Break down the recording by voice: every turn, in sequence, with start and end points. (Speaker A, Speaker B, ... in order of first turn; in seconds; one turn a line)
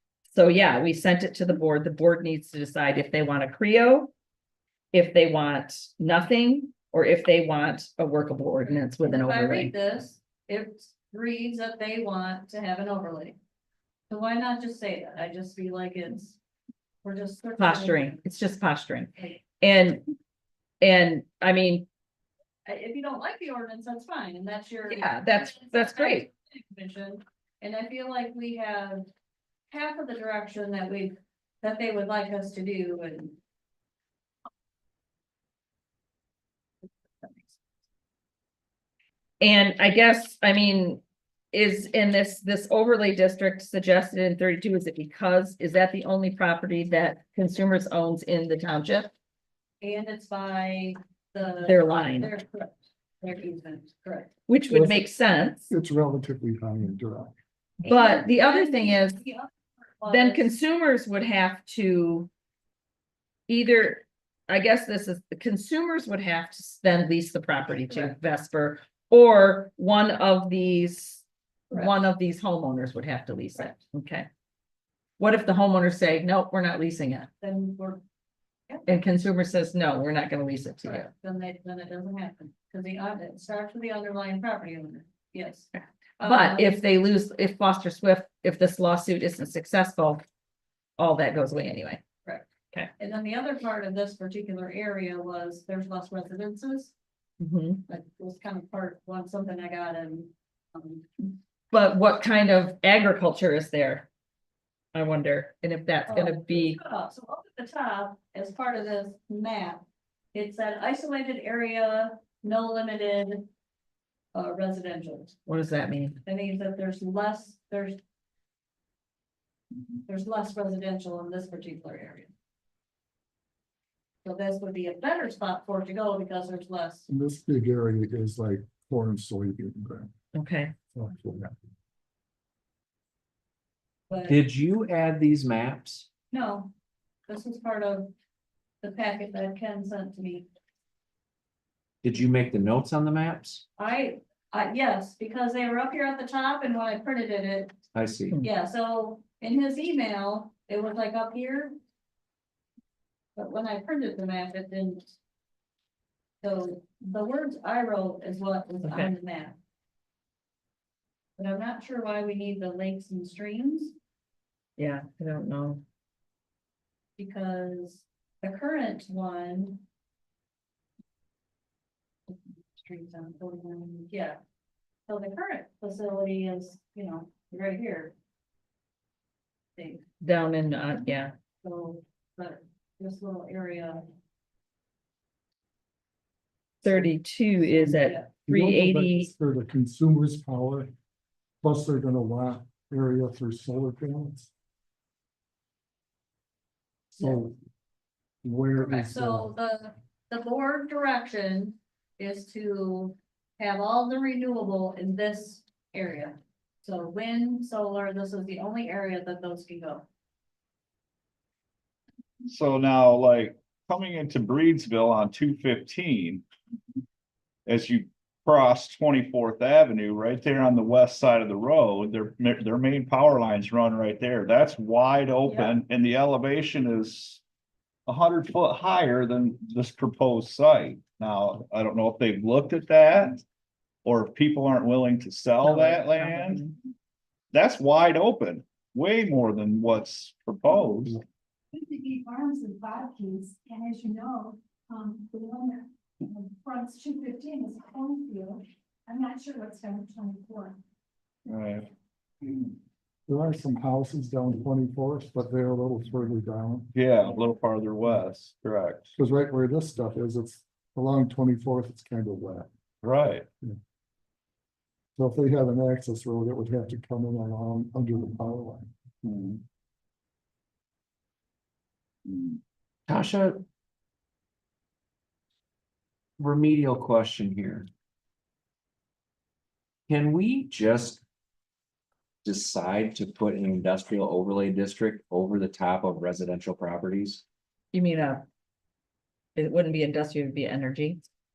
Speaker A: 0.3-4.1
Speaker A: 4.9-9.7
Speaker B: 8.9-13.4
Speaker B: 14.1-16.4
Speaker B: 17.0-18.2
Speaker A: 17.6-20.0
Speaker A: 20.8-21.9
Speaker B: 22.6-29.1
Speaker A: 24.9-26.3
Speaker B: 29.7-33.4
Speaker B: 36.8-37.6
Speaker A: 39.4-49.1
Speaker B: 49.8-54.3
Speaker A: 51.6-52.3
Speaker A: 54.5-55.7
Speaker C: 54.7-55.0
Speaker C: 55.7-57.4
Speaker A: 57.8-59.2
Speaker B: 57.8-60.5
Speaker A: 60.1-62.3
Speaker A: 63.5-74.3
Speaker B: 67.7-68.1
Speaker A: 75.2-77.3
Speaker B: 77.4-78.0
Speaker A: 78.8-81.1
Speaker B: 80.8-86.8
Speaker A: 85.7-90.2
Speaker A: 91.0-92.0
Speaker B: 93.0-96.9
Speaker A: 97.4-97.8
Speaker B: 97.9-101.1
Speaker A: 101.7-104.1
Speaker A: 104.9-106.8
Speaker B: 106.1-113.5
Speaker B: 114.3-115.3
Speaker A: 115.5-116.2
Speaker B: 116.2-118.0
Speaker B: 120.1-122.3
Speaker B: 124.2-127.1
Speaker C: 127.1-130.1
Speaker A: 130.3-130.7
Speaker C: 130.9-131.6
Speaker B: 134.1-134.4
Speaker D: 134.3-136.1
Speaker B: 136.3-136.7
Speaker B: 137.3-138.1
Speaker B: 138.8-140.5
Speaker D: 142.0-143.6
Speaker B: 143.8-147.8
Speaker D: 147.9-148.3
Speaker B: 148.4-151.7
Speaker B: 153.3-155.1
Speaker B: 156.4-159.6
Speaker A: 158.8-159.1
Speaker B: 161.4-163.9
Speaker A: 164.8-165.8
Speaker B: 167.2-169.8
Speaker B: 172.3-174.4
Speaker B: 175.1-178.1
Speaker B: 179.8-180.0
Speaker A: 180.2-181.3
Speaker B: 181.6-184.0
Speaker B: 186.8-187.1
Speaker A: 186.8-189.3
Speaker B: 187.7-188.3
Speaker C: 188.4-190.9
Speaker C: 191.6-194.5
Speaker C: 197.2-197.6
Speaker C: 198.4-199.5
Speaker B: 198.8-210.1
Speaker E: 212.4-216.4
Speaker E: 217.7-227.4
Speaker B: 225.4-225.8
Speaker E: 228.1-233.4
Speaker E: 234.0-236.6
Speaker A: 235.6-236.7
Speaker E: 237.5-241.2
Speaker F: 241.7-250.8
Speaker E: 251.4-251.9
Speaker C: 253.3-256.9
Speaker E: 256.9-259.1
Speaker C: 259.1-262.7
Speaker E: 263.0-263.4
Speaker C: 265.1-268.9
Speaker E: 269.2-269.6
Speaker E: 272.2-272.6
Speaker D: 273.1-273.6
Speaker D: 276.4-277.9
Speaker D: 280.1-281.2
Speaker D: 282.4-287.4
Speaker A: 287.9-288.4
Speaker A: 289.6-291.2